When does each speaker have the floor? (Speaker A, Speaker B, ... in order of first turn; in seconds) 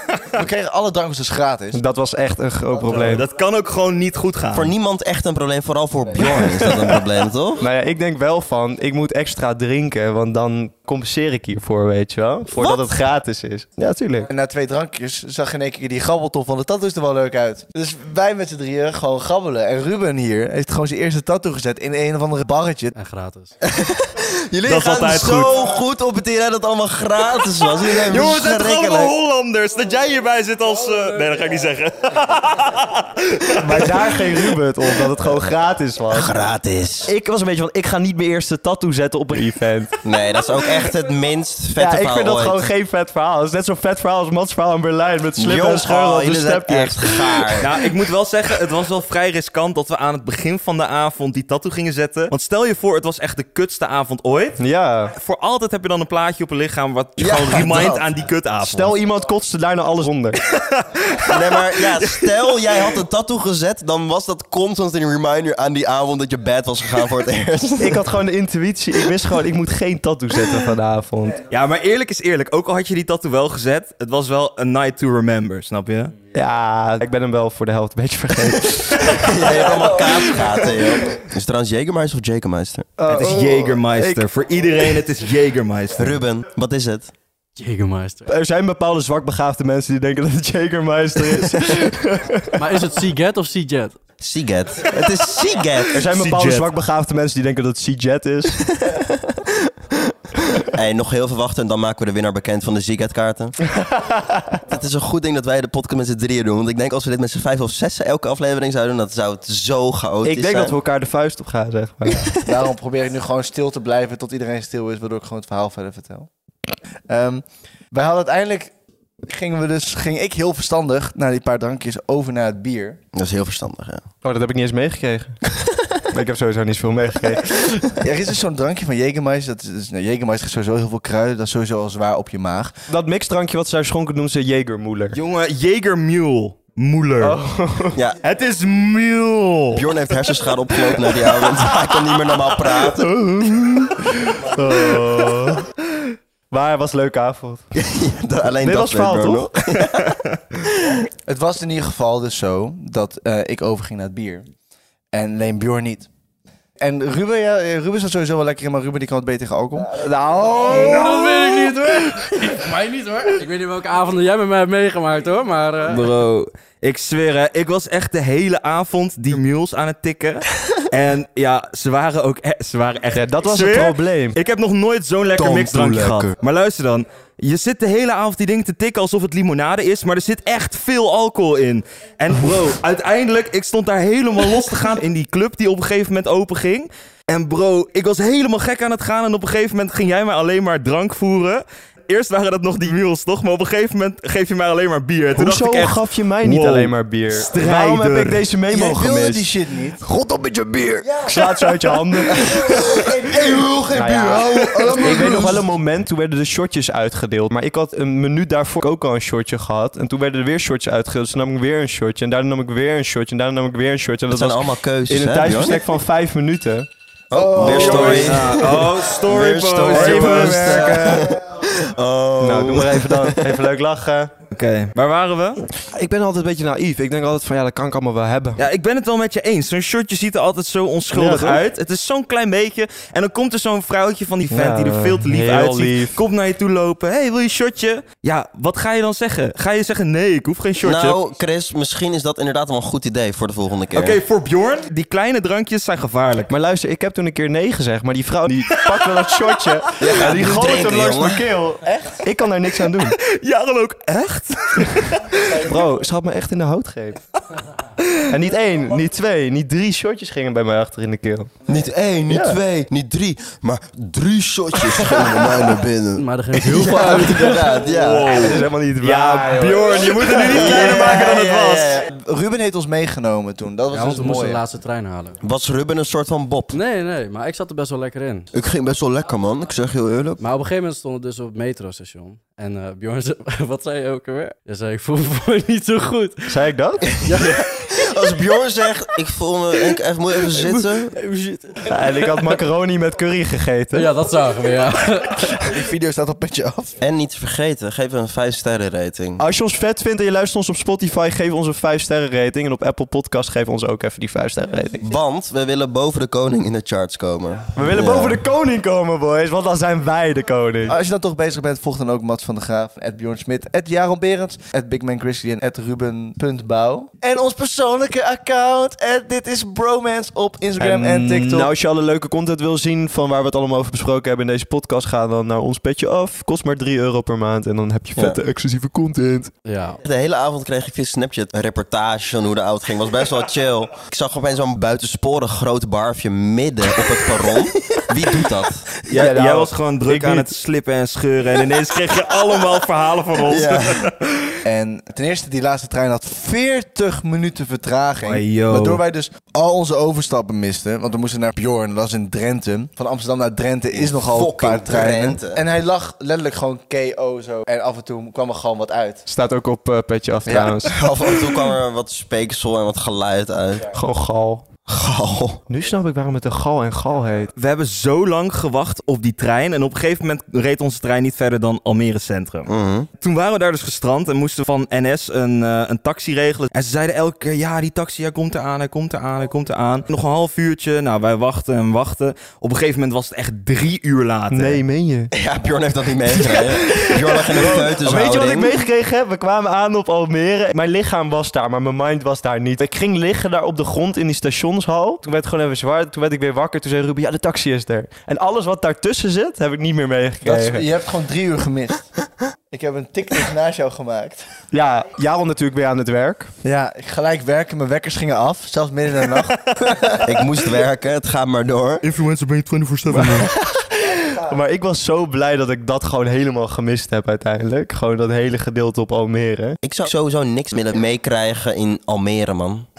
Speaker A: 0.3-1.8, 14.3-22.9, 112.4-116.3, 117.1-118.7, 119.2-123.0, 128.0-132.7, 151.2-154.5, 155.1-156.1, 156.8-160.0, 198.7-200.0, 202.4-205.6, 217.3-218.3, 220.9-221.2, 270.4-274.6, 295.5-296.9, 310.9-321.7, 344.6-359.2, 360.5-360.8, 400.4-402.1, 402.7-404.4, 406.6-410.2
Speaker B: 1.7-3.2, 7.6-14.3, 33.6-36.3, 37.0-40.0, 41.8-47.7, 54.6-55.1, 58.6-60.4, 67.8-71.4, 76.3-80.8, 83.0-84.2, 88.3-92.7, 95.8-98.6, 103.8-104.6, 110.2-112.3, 124.2-125.4, 126.1-127.9, 132.9-135.2, 137.2-138.0, 142.9-147.6, 148.6-149.8, 159.9-161.8, 173.1-174.4, 175.4-176.3, 195.3-199.5, 200.0-202.6, 203.9-216.9, 217.5-218.5, 219.9-221.4, 222.4-224.3, 225.8-228.6, 231.1-231.6, 234.5-236.2, 246.5-253.2, 254.8-257.2, 258.3-261.5, 262.3-262.6, 268.3-270.7, 286.5-287.1, 291.9-294.1, 299.4-305.1, 307.7-311.0, 320.8-329.5, 339.1-340.5, 359.2-361.0, 363.9-364.6, 365.7-367.5, 384.5-385.3, 386.4-400.9, 404.7-406.5, 413.1-419.8
Speaker C: 2.9-4.7, 24.6-25.6, 27.9-34.4, 47.6-54.6, 55.1-58.9, 60.4-62.9, 71.5-76.1, 83.1-86.2, 96.1-96.7, 135.1-137.4, 138.2-139.9, 165.8-198.4, 217.6-221.0, 224.5-225.6, 228.6-241.2, 243.9-246.5, 248.8-249.3, 253.0-255.5, 267.9-272.0, 339.1-344.6, 348.2-349.0, 367.6-372.7, 373.2-384.8, 412.0-413.5
Speaker D: 4.5-7.6, 12.6-12.9, 23.6-29.1, 36.1-37.1, 40.0-42.6, 45.4-47.7, 57.2-58.1, 61.2-68.0, 79.2-82.9, 86.0-87.1, 94.2-96.1, 100.6-103.6, 104.7-110.8, 123.1-124.0, 139.7-143.2, 147.7-151.1, 201.0-201.3, 202.3-203.6, 204.8-205.4, 214.3-215.8, 217.3-223.5, 240.8-244.2, 250.0-251.5, 261.6-268.5, 270.5-271.7, 275.4-276.8, 278.5-280.4, 287.2-291.1, 297.0-299.4, 305.0-308.4, 330.0-338.9, 343.4-344.1, 353.9-355.6, 360.9-363.9, 364.9-365.6, 372.7-373.1, 385.3-388.7, 410.2-412.0, 419.8-422.9
Speaker E: 22.9-23.5, 87.5-88.3, 92.6-94.0, 160.6-166.1, 266.1-267.9, 273.9-275.4, 276.7-278.5, 280.4-286.6, 287.1-287.6, 290.4-292.6, 293.9-295.7, 329.6-330.0